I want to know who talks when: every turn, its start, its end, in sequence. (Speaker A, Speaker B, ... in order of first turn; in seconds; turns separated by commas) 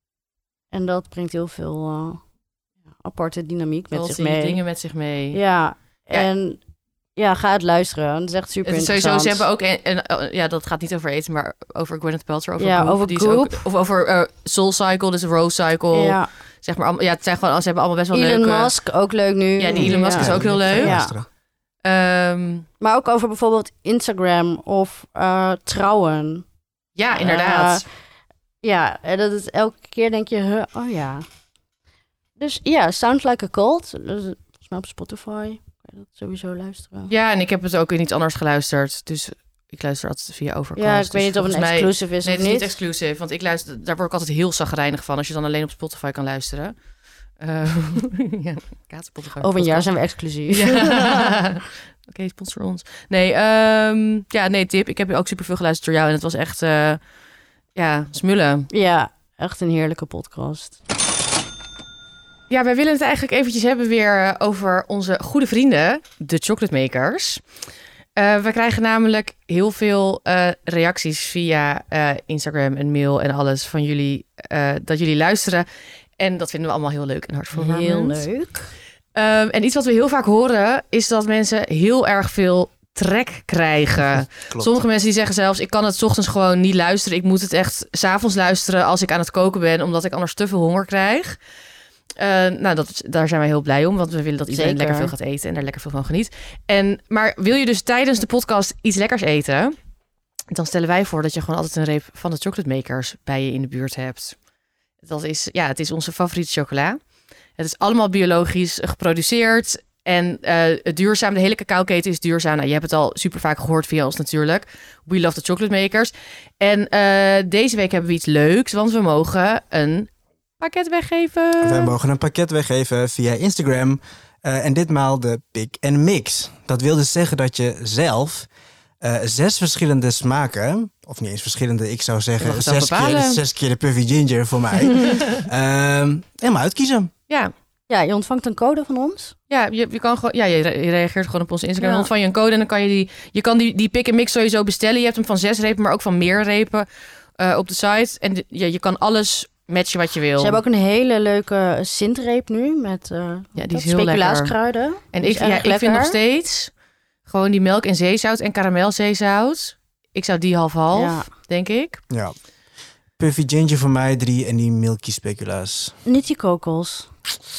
Speaker A: 0.7-2.2, Speaker A: 3.0-4.6, Speaker B: 3.9-5.4, Speaker A: 5.3-6.6, Speaker A: 7.2-9.4, Speaker B: 8.6-18.7, Speaker A: 12.6-13.6, Speaker A: 15.9-16.3, Speaker A: 18.1-21.1, Speaker B: 19.6-20.9, Speaker C: 19.7-21.2, Speaker B: 21.8-22.7, Speaker A: 22.8-26.4, Speaker B: 26.9-27.8, Speaker A: 27.1-27.8, Speaker A: 28.6-31.2, Speaker A: 32.4-37.1, Speaker B: 37.1-46.7, Speaker A: 40.8-42.7, Speaker B: 47.4-49.9, Speaker A: 49.4-51.4, Speaker B: 50.5-57.0, Speaker B: 57.8-58.7, Speaker A: 58.7-60.8, Speaker B: 62.5-67.4, Speaker B: 68.2-75.7, Speaker B: 76.2-78.2, Speaker A: 77.5-78.7, Speaker B: 79.2-91.4, Speaker C: 84.2-84.8, Speaker B: 92.2-99.7, Speaker A: 94.5-95.1, Speaker B: 100.5-104.3, Speaker B: 105.0-107.0, Speaker B: 107.6-121.9, Speaker C: 121.6-128.5, Speaker C: 129.0-137.1, Speaker B: 132.4-133.4, Speaker B: 134.9-135.4, Speaker A: 137.9-139.3, Speaker B: 139.5-146.9, Speaker A: 141.8-142.1, Speaker B: 147.4-150.6, Speaker A: 150.4-156.2, Speaker B: 153.6-154.5, Speaker B: 155.1-156.7, Speaker B: 157.3-162.0, Speaker A: 160.9-161.3, Speaker C: 163.2-165.9, Speaker A: 166.1-167.1